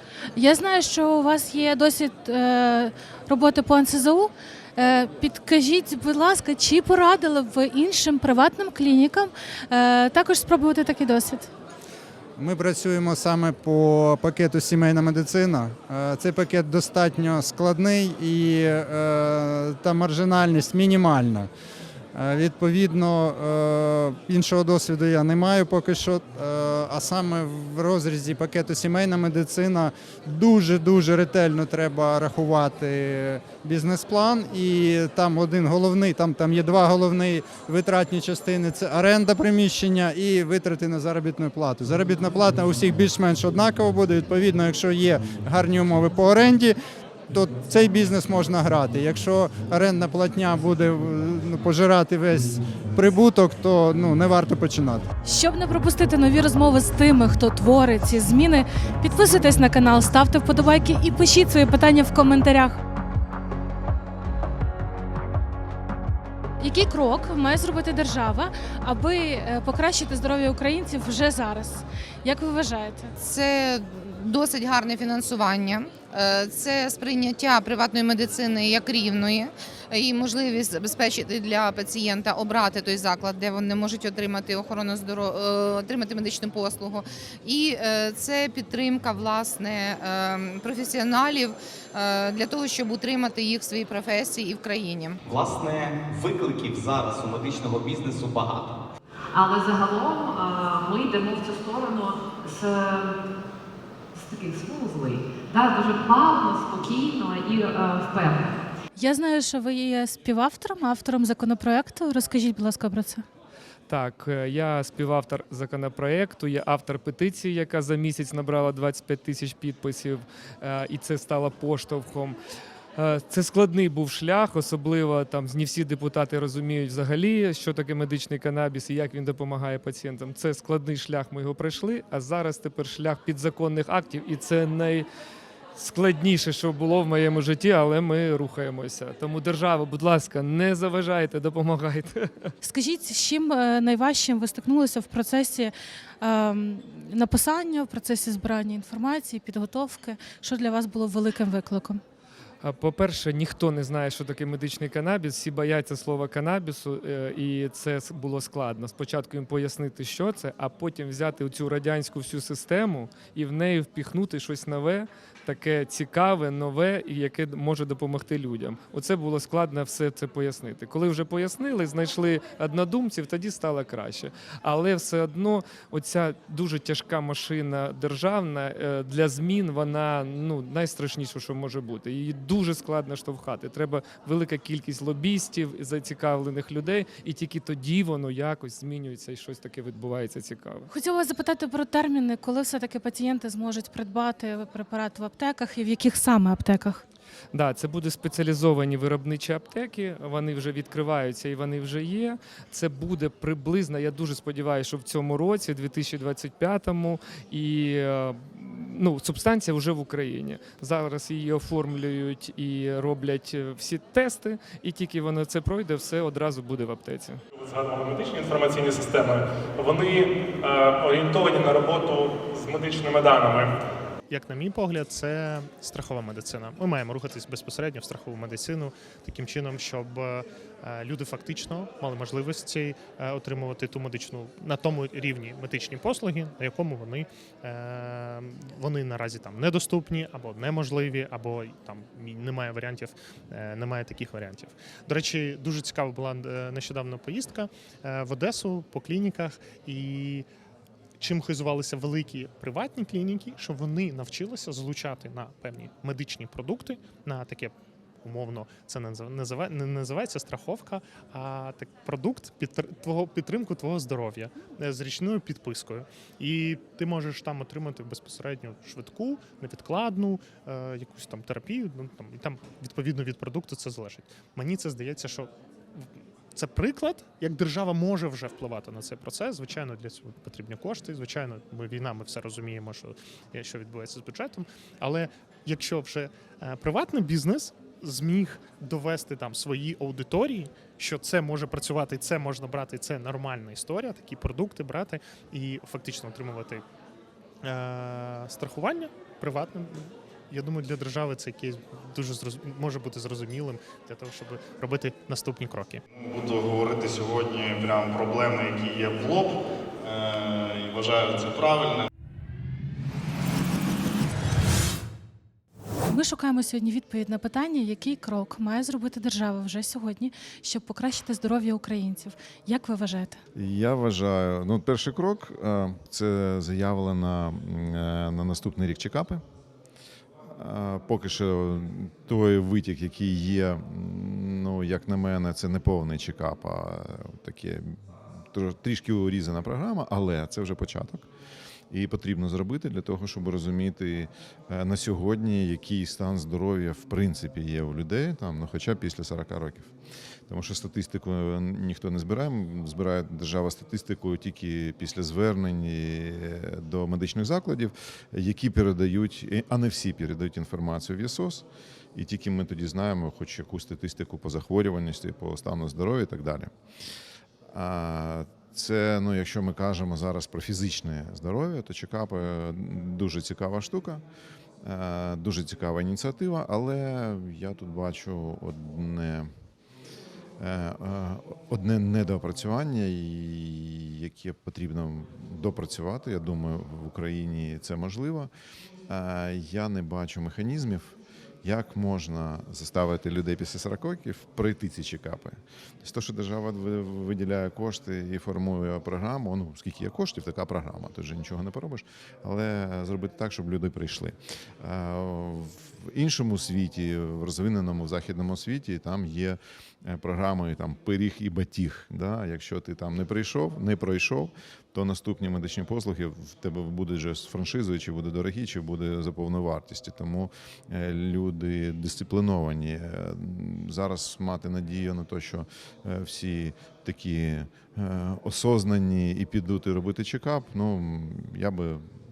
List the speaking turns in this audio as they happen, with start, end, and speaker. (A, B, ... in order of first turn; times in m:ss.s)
0:00.4-0:11.5 A
0:12.4-0:21.5 B
0:22.1-0:46.7 B
0:47.3-0:55.0 B
0:55.2-1:02.8 A
1:06.6-1:13.1 A
1:13.2-1:35.2 C
1:35.2-1:38.8 D
1:39.3-1:43.1 E
1:44.2-1:48.5 E
1:49.0-1:53.2 A
1:53.9-2:02.4 F
2:03.0-2:15.0 F
2:15.8-2:22.5 F
2:22.6-2:32.0 A
2:32.6-3:10.9 F
3:10.9-3:17.0 A
3:17.5-3:37.4 F
3:37.5-3:43.7 G
3:44.3-4:10.5 H
4:11.2-4:56.8 H
4:57.6-5:06.0 H
5:06.1-5:12.1 I
5:16.1-5:23.4 A
5:23.6-5:29.4 J
5:30.5-5:38.0 J
5:38.5-5:41.3 J
5:41.9-5:49.9 J
5:50.5-6:06.7 J
6:07.7-6:14.2 J
6:14.8-6:19.5 J
6:20.6-6:28.5 J
6:29.1-7:12.1 J